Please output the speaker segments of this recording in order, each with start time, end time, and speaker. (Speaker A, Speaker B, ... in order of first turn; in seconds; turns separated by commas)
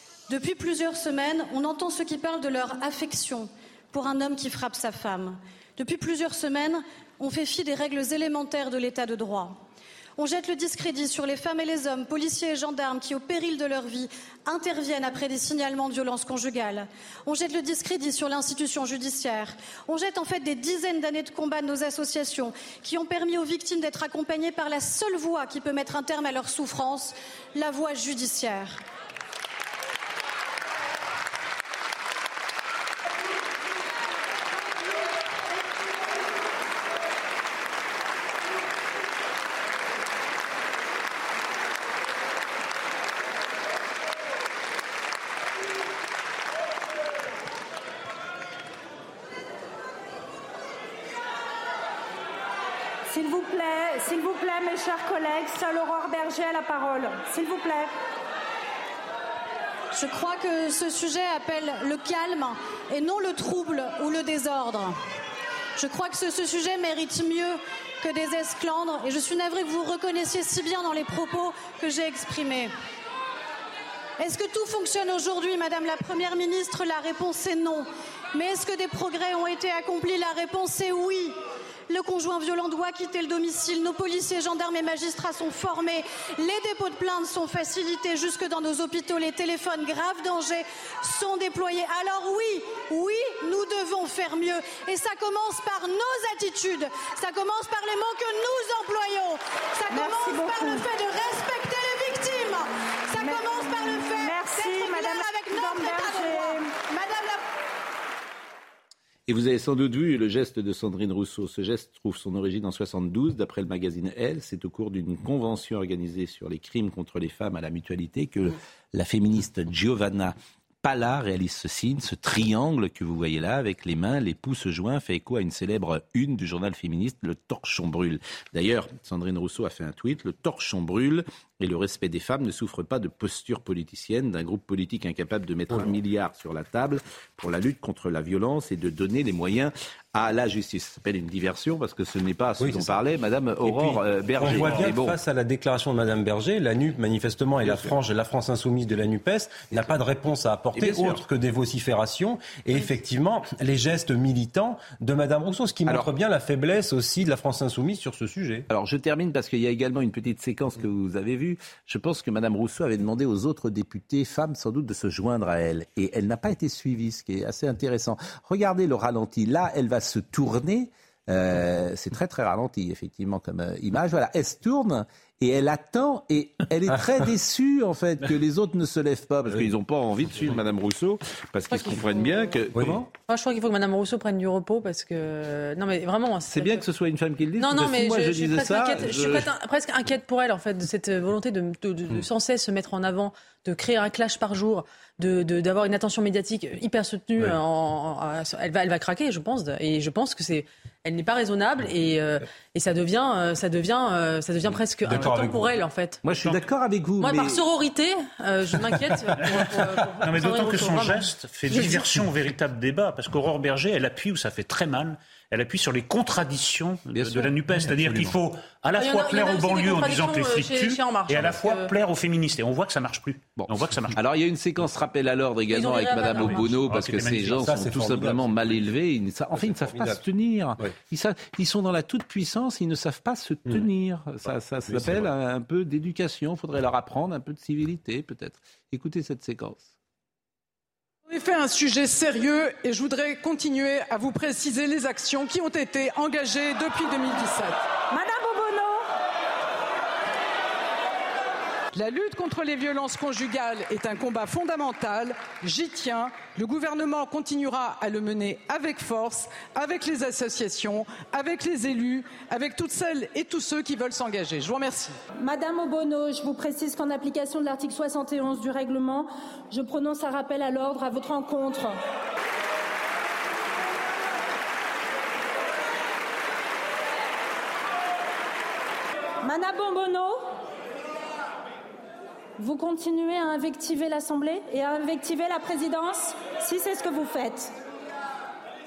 Speaker A: 0.3-9.6, Speaker A: 10.2-28.8, Speaker B: 53.1-57.9, Speaker A: 59.9-65.0, Speaker A: 65.8-72.7, Speaker A: 74.2-81.3, Speaker A: 81.9-107.2, Speaker B: 99.9-100.8, Speaker B: 104.1-106.7, Speaker C: 109.3-145.2, Speaker D: 135.7-135.9, Speaker D: 142.6-143.0, Speaker D: 143.6-158.7, Speaker C: 147.6-147.9, Speaker C: 150.7-151.2, Speaker C: 158.7-183.1, Speaker E: 181.7-182.4, Speaker D: 182.7-183.0, Speaker E: 183.3-186.8, Speaker C: 186.5-189.5, Speaker E: 187.6-206.2, Speaker D: 205.0-205.7, Speaker C: 206.2-207.6, Speaker F: 206.3-206.6, Speaker E: 207.2-212.1, Speaker F: 210.2-224.2, Speaker C: 217.1-217.5, Speaker E: 219.0-221.9, Speaker C: 223.6-239.9, Speaker E: 225.7-226.7, Speaker F: 226.3-227.7, Speaker D: 227.6-228.9, Speaker D: 229.5-230.2, Speaker D: 234.9-235.3, Speaker G: 241.3-247.8, Speaker B: 248.1-249.0, Speaker G: 251.9-265.2, Speaker B: 265.4-272.0, Speaker B: 279.4-280.4, Speaker B: 282.6-287.7